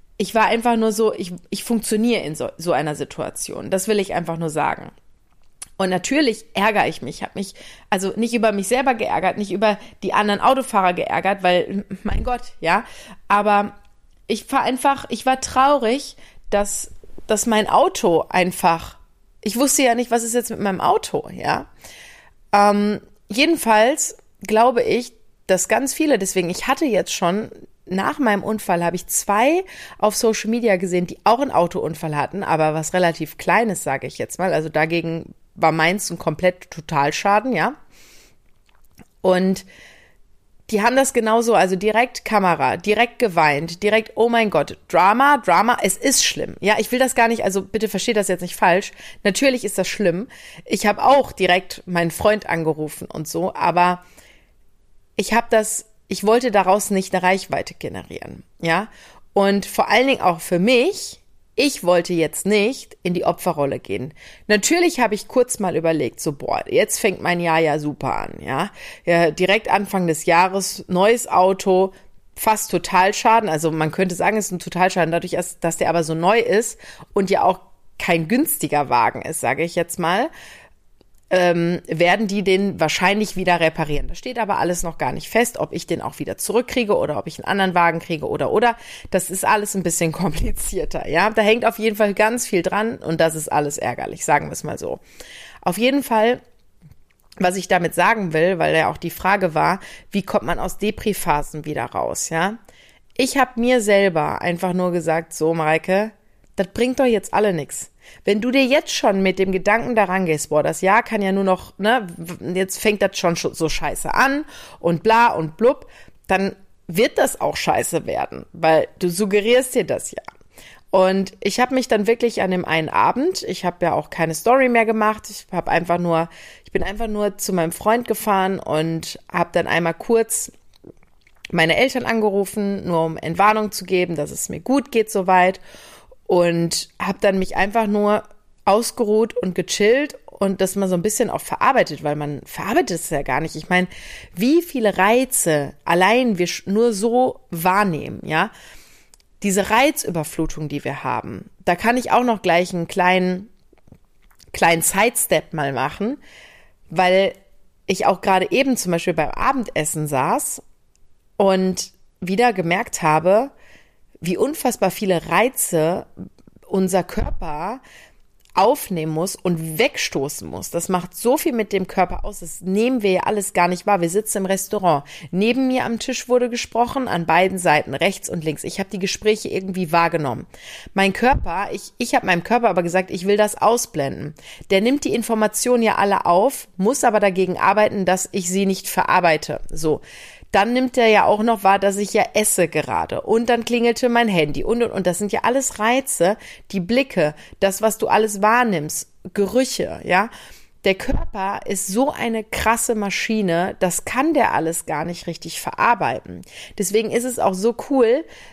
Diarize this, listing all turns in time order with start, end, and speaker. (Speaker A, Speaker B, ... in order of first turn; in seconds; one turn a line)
Speaker A: 0.2-4.9
Speaker A: 5.8-13.7
Speaker A: 14.3-21.7
Speaker A: 22.5-37.7
Speaker A: 39.2-39.6
Speaker A: 40.7-54.0
Speaker A: 55.2-80.3
Speaker A: 81.3-95.0
Speaker A: 95.6-96.4
Speaker A: 97.4-102.6
Speaker A: 103.2-120.2
Speaker A: 120.9-130.5
Speaker A: 131.5-135.6
Speaker A: 136.3-148.5
Speaker A: 149.4-153.5
Speaker A: 154.5-156.2
Speaker A: 156.9-157.3
Speaker A: 157.9-160.6
Speaker A: 161.4-163.5
Speaker A: 164.2-166.1
Speaker A: 166.7-167.8
Speaker A: 168.5-200.3
Speaker A: 200.8-208.2